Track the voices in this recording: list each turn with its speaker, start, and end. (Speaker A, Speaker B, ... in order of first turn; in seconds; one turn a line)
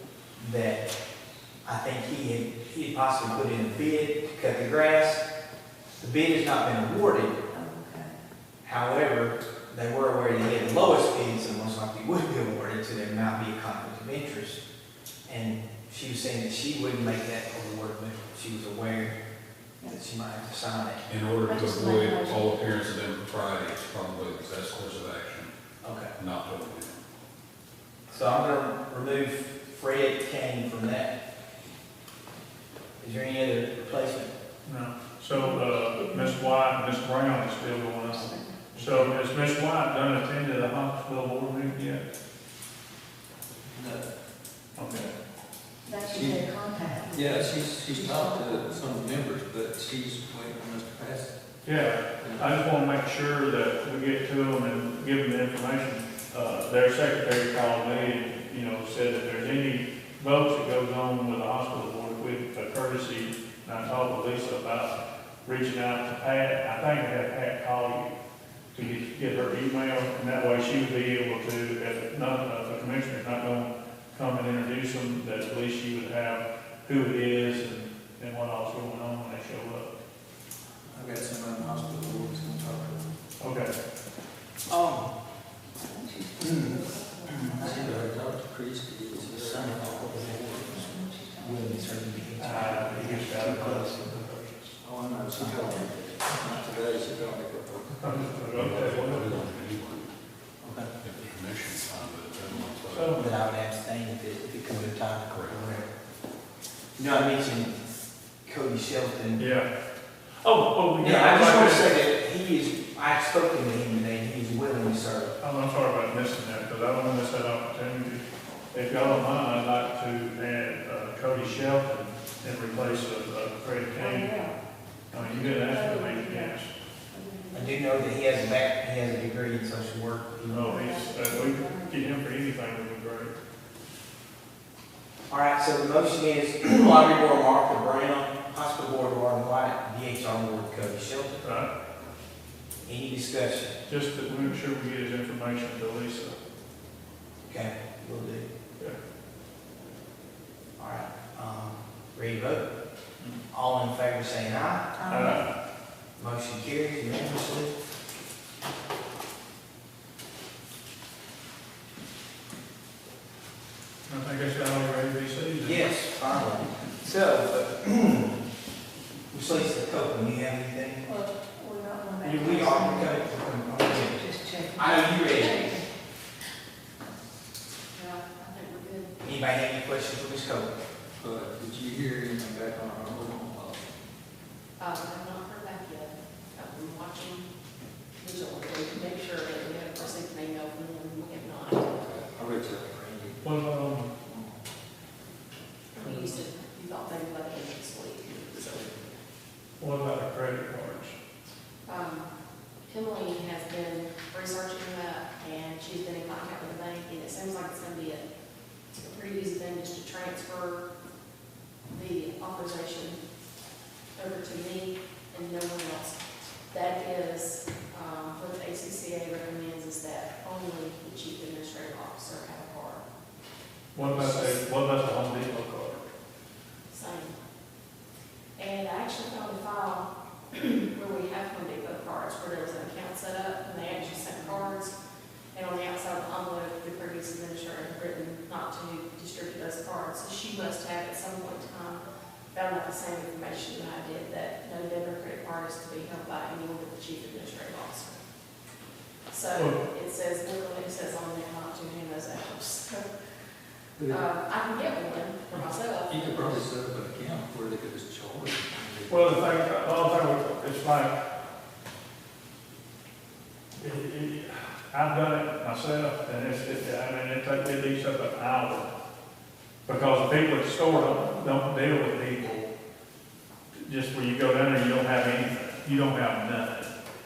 Speaker A: 0.4-0.8
Speaker A: 1.6-5.2
Speaker A: 6.0-7.4
Speaker B: 7.5-8.2
Speaker A: 8.6-14.6
Speaker A: 15.3-19.2
Speaker A: 19.8-21.0
Speaker C: 21.1-25.5
Speaker B: 21.4-22.6
Speaker A: 25.8-26.1
Speaker C: 26.1-26.9
Speaker A: 28.1-31.1
Speaker A: 33.0-34.3
Speaker D: 34.6-42.0
Speaker B: 35.3-36.5
Speaker B: 38.1-38.7
Speaker E: 38.8-39.1
Speaker E: 43.7-44.0
Speaker D: 44.8-45.1
Speaker B: 45.8-49.2
Speaker E: 46.1-46.4
Speaker E: 47.1-51.3
Speaker D: 51.6-68.1
Speaker E: 52.2-52.6
Speaker D: 68.7-79.9
Speaker E: 80.9-83.0
Speaker D: 83.4-83.7
Speaker A: 84.7-85.1
Speaker B: 85.8-87.8
Speaker A: 86.4-88.0
Speaker E: 87.6-91.0
Speaker A: 89.2-94.2
Speaker B: 90.9-92.3
Speaker D: 92.4-94.8
Speaker E: 94.8-98.5
Speaker B: 95.4-95.8
Speaker D: 98.0-99.5
Speaker C: 98.5-100.1
Speaker A: 100.6-100.9
Speaker C: 101.0-103.2
Speaker D: 102.9-103.3
Speaker A: 103.2-105.9
Speaker C: 105.3-105.6
Speaker A: 107.0-107.8
Speaker A: 108.4-109.5
Speaker D: 109.3-109.7
Speaker D: 110.4-111.9
Speaker A: 111.0-115.3
Speaker D: 115.4-124.5
Speaker B: 124.0-124.5
Speaker D: 125.1-126.7
Speaker B: 125.1-128.0
Speaker A: 127.5-130.7
Speaker D: 130.4-133.3
Speaker B: 130.6-132.1
Speaker A: 135.3-141.4
Speaker D: 141.4-141.7
Speaker A: 142.8-143.8
Speaker D: 143.9-146.3
Speaker A: 147.4-148.5
Speaker A: 150.8-152.7
Speaker A: 153.5-154.9
Speaker B: 154.9-155.4
Speaker D: 155.1-155.4
Speaker A: 156.2-157.7
Speaker D: 164.1-165.9
Speaker A: 165.6-168.4
Speaker A: 169.3-171.1
Speaker B: 171.0-173.2
Speaker A: 172.2-175.8
Speaker B: 173.9-175.9
Speaker F: 177.9-179.2
Speaker A: 179.2-180.7
Speaker E: 181.2-183.9
Speaker F: 184.8-187.5
Speaker F: 188.2-192.3
Speaker E: 192.0-193.6
Speaker D: 193.4-194.1
Speaker E: 194.2-194.6
Speaker F: 195.9-199.1
Speaker E: 196.0-196.4
Speaker D: 199.8-201.1
Speaker F: 201.8-202.3
Speaker F: 202.9-208.2
Speaker F: 208.9-210.8
Speaker F: 211.9-213.2
Speaker F: 214.1-216.2
Speaker F: 216.7-223.0
Speaker D: 223.9-226.0
Speaker F: 224.0-224.6
Speaker F: 226.9-227.3
Speaker F: 228.6-234.9
Speaker B: 234.3-234.6
Speaker F: 235.5-248.2
Speaker F: 249.3-253.0
Speaker E: 254.0-254.2
Speaker F: 254.1-256.6
Speaker E: 256.1-259.6
Speaker D: 259.1-261.2
Speaker D: 263.8-268.9
Speaker D: 269.9-272.6
Speaker D: 273.8-276.9